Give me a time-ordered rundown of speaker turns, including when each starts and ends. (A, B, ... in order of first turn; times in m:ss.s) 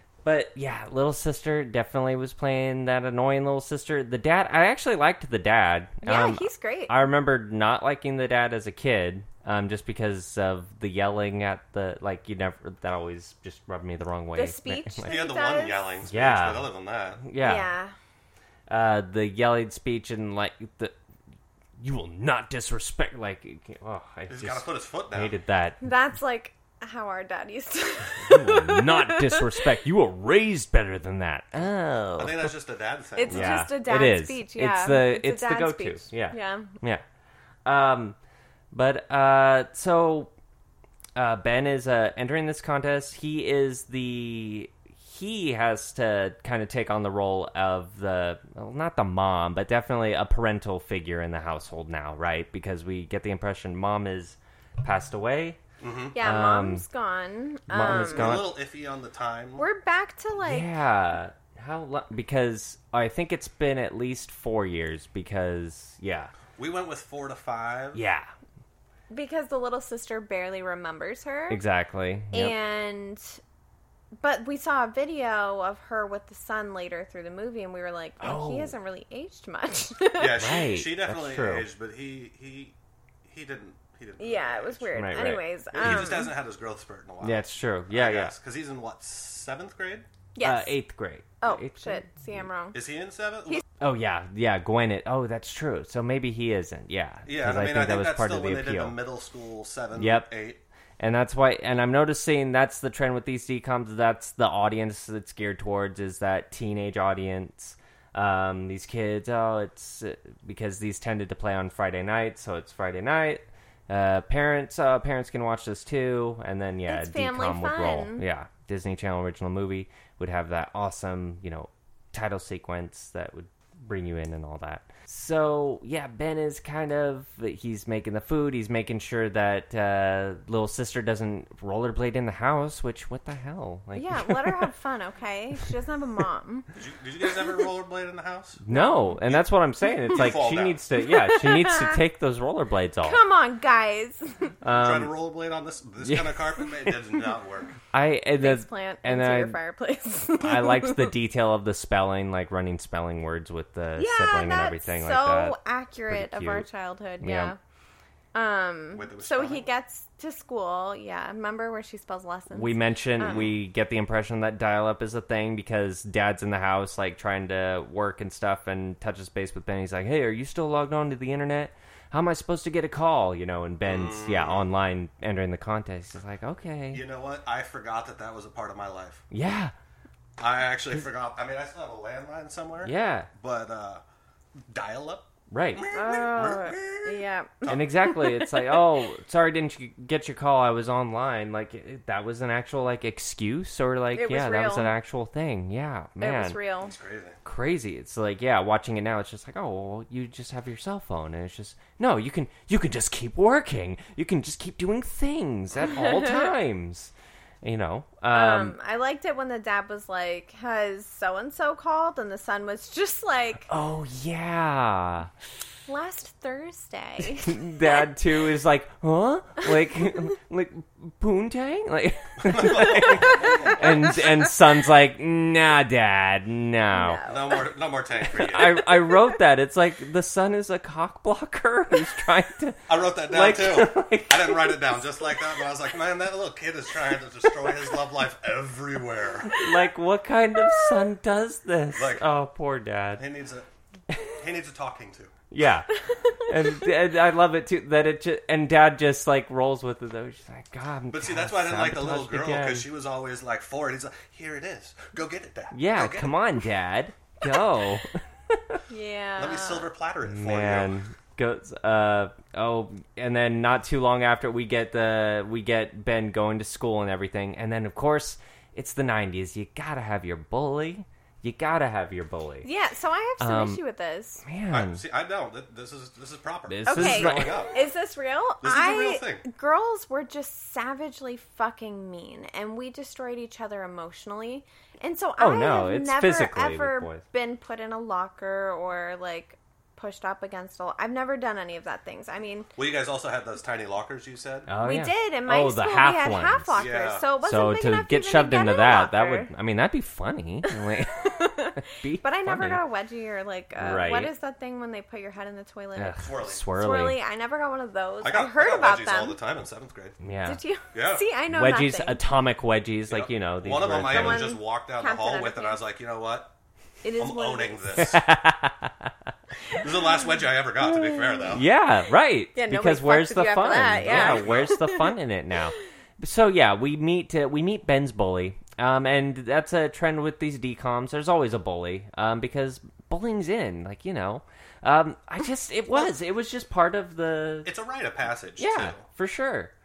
0:00.2-0:15.1 A
0:06.0-0:06.9 B
0:14.3-0:16.0 B
0:15.0-0:17.2 C
0:16.1-0:16.7 A
0:17.2-0:17.7 A
0:17.4-0:17.9 B
0:18.7-0:20.9 A
0:21.8-0:25.8 A
0:24.3-0:25.3 C
0:25.8-0:29.6 B
0:28.2-0:32.5 A
0:32.2-0:33.6 C
0:33.2-0:36.7 B
0:33.3-0:37.0 A
0:37.6-0:38.2 A
0:38.7-0:40.3 A
0:41.2-0:55.6 A
0:55.8-0:56.2 C
0:56.1-0:58.4 B
0:56.1-0:56.8 A
0:57.7-0:58.5 A
0:57.8-0:59.6 C
0:59.6-1:00.7 B
1:00.4-1:06.3 A
1:06.6-1:08.0 C
1:07.9-1:08.3 A
1:09.1-1:11.6 B
1:11.5-1:12.5 A
1:12.3-1:13.4 B
1:14.2-1:20.6 B
1:18.2-1:18.7 A
1:20.2-1:24.9 C
1:20.4-1:21.7 A
1:24.2-1:26.3 B
1:24.9-1:26.3 A
1:25.7-1:30.0 C
1:27.2-1:28.4 A
1:30.4-1:30.8 B
1:30.4-1:32.2 A
1:31.4-1:32.8 B
1:32.7-1:33.6 C
1:33.8-1:39.0 A
1:37.2-1:40.6 C
1:39.9-1:40.3 A
1:41.0-2:14.7 A
1:56.9-1:58.2 B
2:13.9-2:16.7 B
2:16.8-2:18.6 C
2:18.6-2:23.2 A
2:18.7-2:19.1 B
2:20.1-2:20.8 C
2:21.0-2:22.0 B
2:23.0-2:24.5 B
2:24.6-2:25.1 A
2:24.6-2:27.8 C
2:26.0-2:26.9 A
2:27.9-2:29.6 A
2:28.4-2:31.1 B
2:30.4-2:35.6 A
2:34.0-2:37.6 B
2:36.1-2:36.7 A
2:37.2-2:37.5 A
2:38.3-2:43.4 B
2:38.9-2:39.7 C
2:42.5-2:57.0 A
2:43.2-2:43.5 C
2:53.8-2:54.7 C
2:56.9-2:59.2 C
2:59.3-2:59.7 A
3:00.4-3:04.0 C
3:02.8-3:03.3 A
3:04.6-3:08.0 C
3:05.5-3:05.8 A
3:05.9-3:08.8 B
3:07.7-3:16.6 A
3:14.1-3:14.9 B
3:16.2-3:16.9 B
3:16.8-3:17.4 C
3:17.4-3:28.8 A
3:28.3-3:33.6 B
3:33.7-3:35.3 A
3:35.9-3:37.9 B
3:37.4-3:47.2 A
3:42.4-3:43.9 C
3:46.9-3:47.6 B
3:47.2-3:48.9 C
3:48.3-3:55.0 A
3:52.9-3:59.6 C
3:59.5-4:03.2 A
4:01.9-4:02.2 C
4:03.2-4:03.7 C
4:04.4-4:05.3 C
4:05.5-4:12.9 A
4:11.1-4:16.3 C
4:15.7-4:18.8 A
4:18.9-4:19.9 B
4:19.4-4:20.9 C
4:20.2-4:32.7 A
4:32.6-4:34.4 B
4:33.4-4:33.8 A
4:34.4-4:35.0 A
4:34.7-4:37.8 C
4:36.7-4:37.7 A
4:36.8-4:52.7 B
4:38.6-4:39.4 C
4:45.4-4:47.2 A
4:52.8-4:54.7 C
4:54.7-4:56.8 A
4:54.8-4:59.5 B
4:56.8-4:57.3 C
4:57.4-5:02.8 A
5:00.6-5:09.4 B
5:03.8-5:04.3 A
5:06.0-5:07.2 A
5:06.2-5:06.6 C
5:08.2-5:10.2 C
5:10.2-5:10.6 A
5:10.4-5:12.2 B
5:10.9-5:11.3 C
5:11.5-5:14.5 A
5:13.1-5:16.5 C
5:14.0-5:15.8 B
5:17.0-5:18.2 B
5:17.2-5:18.2 C
5:18.0-5:19.1 A
5:19.7-5:21.6 C
5:20.8-5:21.5 B
5:21.5-5:37.7 A
5:22.5-5:25.1 B
5:24.0-5:24.8 C
5:37.6-5:39.0 C
5:38.6-5:39.7 A